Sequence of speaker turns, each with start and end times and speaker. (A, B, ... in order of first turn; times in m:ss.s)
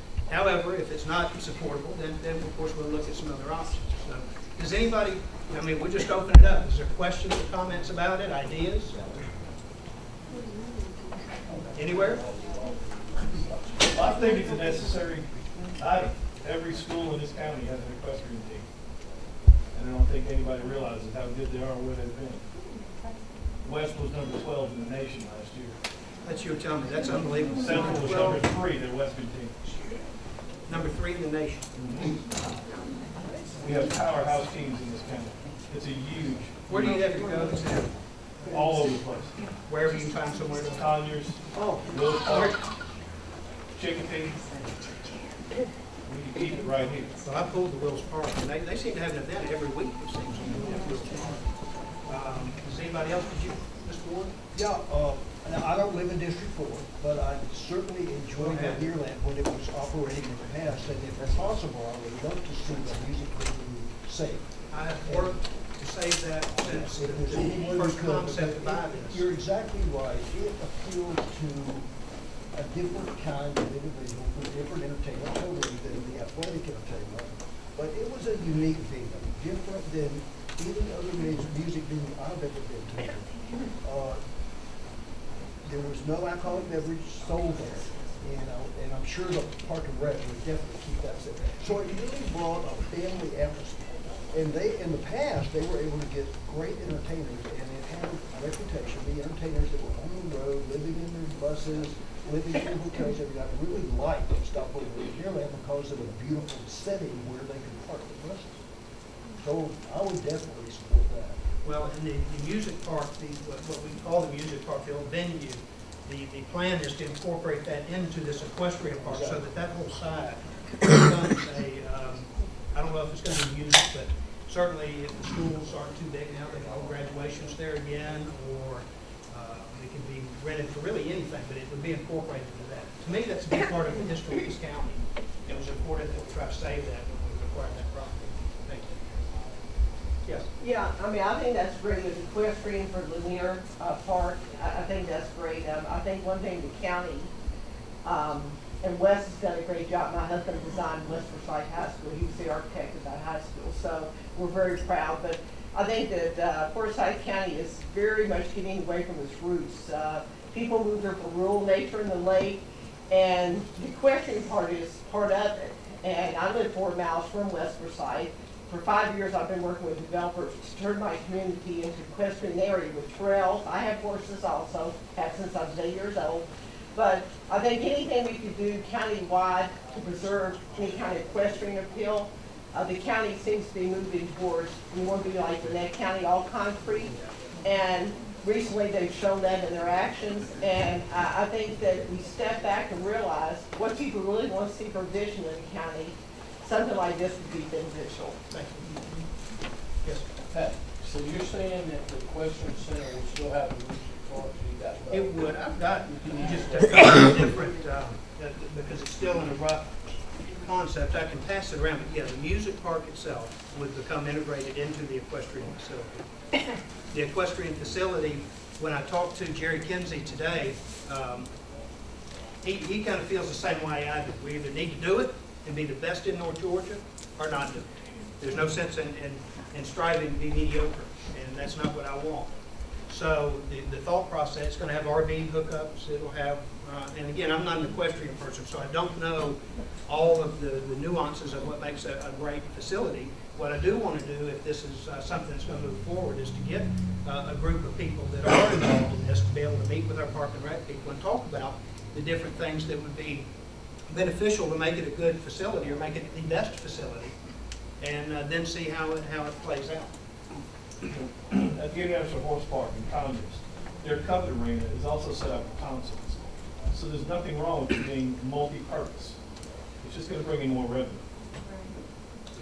0:00.3-0:09.1 A
0:11.8-0:13.8 B
0:11.8-0:12.2 A
0:13.8-0:18.7 C
0:19.7-0:22.4 C
0:23.6-0:25.8 C
0:26.2-0:28.5 A
0:27.5-0:29.6 C
0:29.6-0:30.0 A
0:30.7-0:31.7 A
0:31.8-0:32.1 C
0:33.6-0:37.1 C
0:36.7-0:38.0 A
0:38.5-0:38.8 A
0:38.5-0:39.4 C
0:39.7-0:41.0 A
0:40.7-0:42.6 C
0:41.6-0:41.8 D
0:43.8-0:44.5 C
0:46.1-0:47.2 C
0:47.2-0:51.4 A
0:52.1-0:54.4 A
0:54.5-1:05.4 E
0:58.4-0:58.9 A
1:04.7-1:09.2 A
1:06.5-1:11.9 E
1:12.5-1:23.3 E
1:23.8-1:24.2 E
1:25.6-1:48.6 E
1:49.4-1:51.4 E
1:51.6-2:19.0 A
1:59.1-1:59.4 E
2:20.6-2:27.3 D
2:28.0-3:18.4 D
3:18.5-3:18.9 A
3:20.5-3:25.6 B
3:25.1-3:30.0 A
3:30.6-3:36.1 A
3:37.1-3:41.5 A
3:42.6-3:47.8 A
3:48.4-3:52.5 A
3:53.1-4:13.5 A
4:14.1-4:17.4 A
4:18.0-4:20.1 A
4:21.1-4:29.4 C
4:30.0-4:31.2 C